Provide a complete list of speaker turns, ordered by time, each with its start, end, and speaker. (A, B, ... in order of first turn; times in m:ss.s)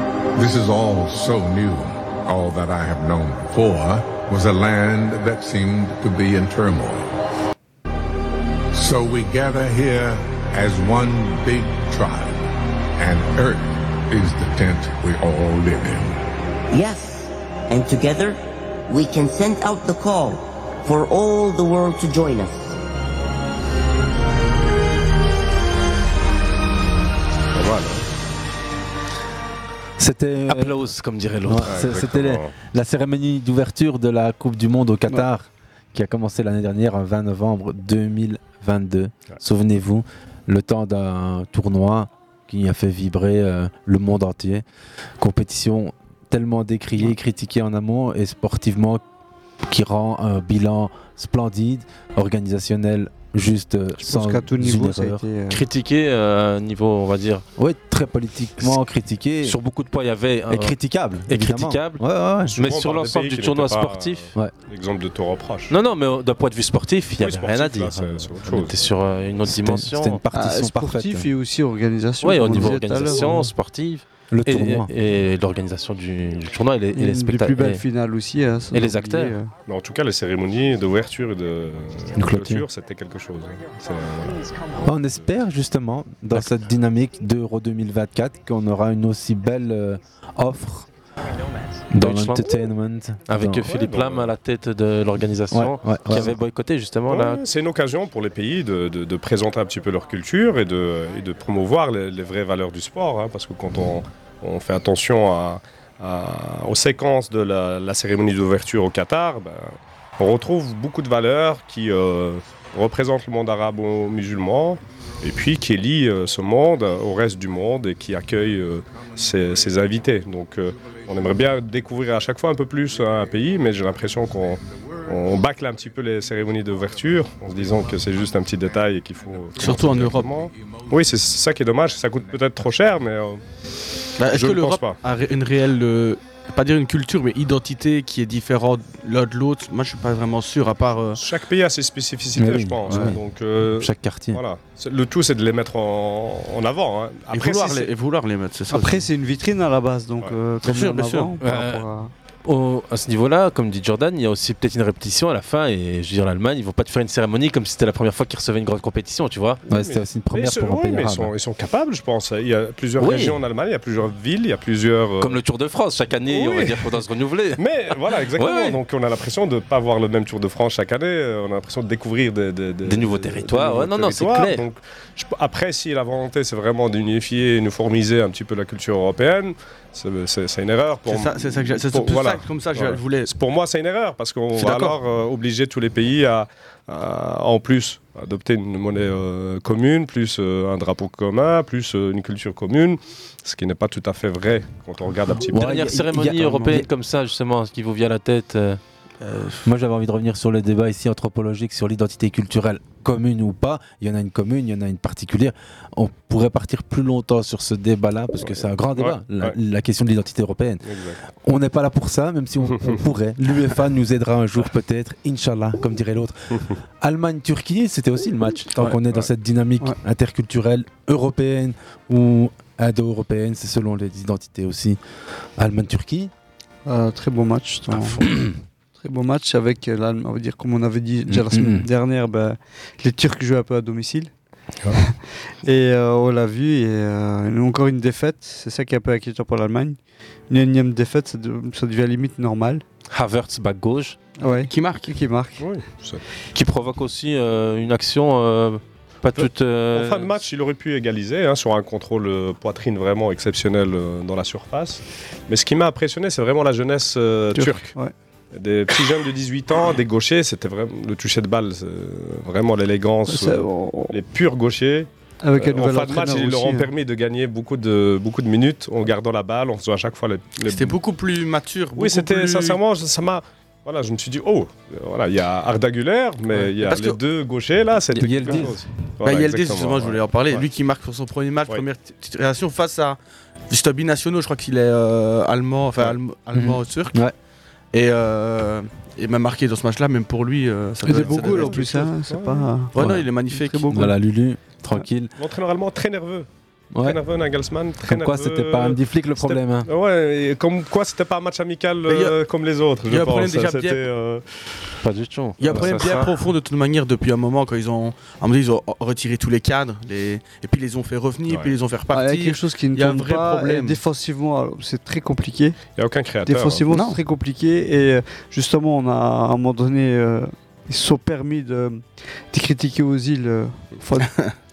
0:00.4-0:07.1 A
0:08.7-0:16.2 A
0:16.7-0:22.8 B
0:27.5-0:28.0 C
0:30.0-0:30.7 D
0:30.5-0:31.8 E
0:31.4-0:44.6 D
0:31.7-0:32.5 C
0:45.2-0:49.0 D
0:49.6-0:55.2 D
0:54.0-0:55.6 F
0:55.5-0:57.4 E
0:57.6-0:59.6 D
0:59.4-1:00.8 E
1:00.5-1:02.5 D
1:01.3-1:04.3 E
1:02.5-1:05.7 C
1:05.7-1:10.2 E
1:07.2-1:08.8 C
1:09.4-1:11.3 D
1:10.3-1:13.5 F
1:12.2-1:17.8 E
1:14.3-1:14.9 D
1:16.9-1:19.5 F
1:18.7-1:19.4 E
1:19.6-1:24.5 C
1:22.2-1:22.7 D
1:24.8-1:30.9 D
1:31.9-1:33.7 D
1:32.0-1:32.4 E
1:33.3-1:37.4 E
1:33.4-1:34.3 C
1:35.5-1:36.3 D
1:37.1-2:13.4 C
2:09.6-2:10.3 G
2:14.2-2:21.2 G
2:14.2-2:15.0 C
2:21.1-2:27.9 C
2:22.4-2:23.2 D
2:23.8-2:24.4 D
2:27.3-2:29.0 G
2:28.7-2:32.1 F
2:30.6-2:31.3 G
2:31.4-2:31.8 E
2:32.4-2:39.6 E
2:39.7-2:45.4 C
2:39.7-2:41.3 D
2:43.0-2:43.4 E
2:45.2-2:47.6 E
2:46.3-2:46.9 C
2:47.6-3:15.8 C
2:48.3-2:48.8 E
2:52.8-2:54.6 E
3:01.1-3:03.3 G
3:04.6-3:05.0 G
3:15.5-3:16.9 D
3:15.5-3:18.8 E
3:19.2-3:19.6 G
3:19.6-3:30.8 D
3:28.4-3:29.6 C
3:30.8-3:31.2 C
3:31.4-3:45.0 D
3:32.6-3:33.0 C
3:45.6-3:46.3 D
3:46.8-3:48.2 F
3:49.0-3:54.3 F
3:51.3-3:51.9 D
3:55.0-4:00.0 F
4:00.5-4:02.8 F
4:03.1-4:04.2 E
4:04.4-4:05.6 F
4:04.4-4:05.1 G
4:05.6-4:06.2 C
4:06.5-4:10.3 E
4:09.4-4:17.9 C
4:17.5-4:18.1 F
4:18.5-4:31.0 C
4:23.3-4:24.1 F
4:25.4-4:26.9 F
4:30.6-4:32.8 G
4:31.9-4:40.6 C
4:36.8-4:37.2 G
4:38.1-4:38.8 D
4:39.2-4:43.2 G
4:43.7-4:47.2 G
4:46.5-4:47.3 D
4:47.9-4:52.1 G
4:51.0-4:53.0 F
4:51.1-4:52.7 C
4:52.9-4:54.1 G
4:53.0-4:53.2 D
4:53.5-4:54.1 F
4:53.9-4:55.3 D
4:55.4-4:56.5 C
4:56.9-4:57.2 D
4:57.0-5:04.6 C
4:58.0-4:59.9 D
5:02.1-5:02.3 G
5:03.1-5:04.0 G
5:05.0-5:06.3 E
5:05.6-5:14.0 G
5:11.5-5:11.7 C
5:12.1-5:15.8 F
5:16.0-5:16.9 C
5:16.4-5:24.3 F
5:16.9-5:17.2 G
5:24.2-5:24.5 G